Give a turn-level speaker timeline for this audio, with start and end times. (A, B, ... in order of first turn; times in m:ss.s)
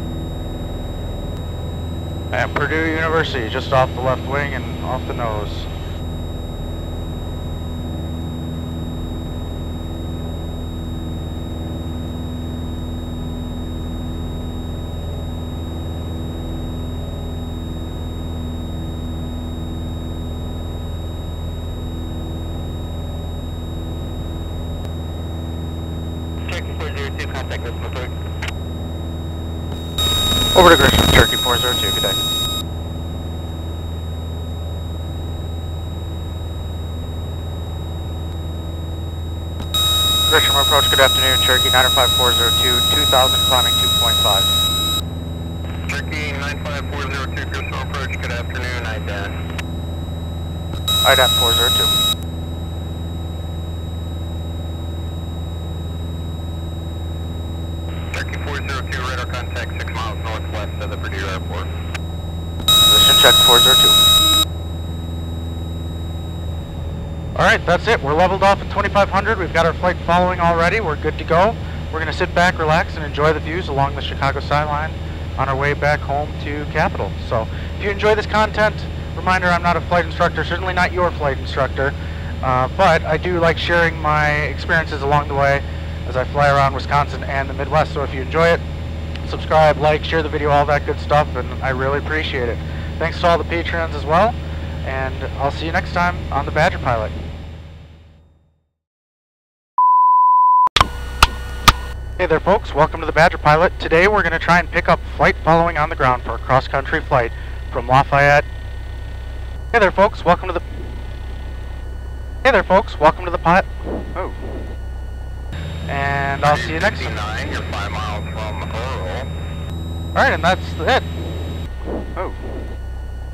0:02.3-0:05.7 A
0:26.5-0:28.1 B
0:30.5-0:32.2 A
0:40.3-0:44.5 A
0:45.9-0:49.4 B
0:51.0-0:51.9 A
0:58.1-1:01.7 B
1:02.9-1:04.0 A
1:07.4-1:28.6 A
1:29.2-1:37.1 A
1:42.2-1:48.5 A
1:49.7-1:50.8 A
1:52.4-1:54.5 A
1:55.9-1:57.1 A
1:56.4-1:59.3 B
2:00.2-2:02.6 A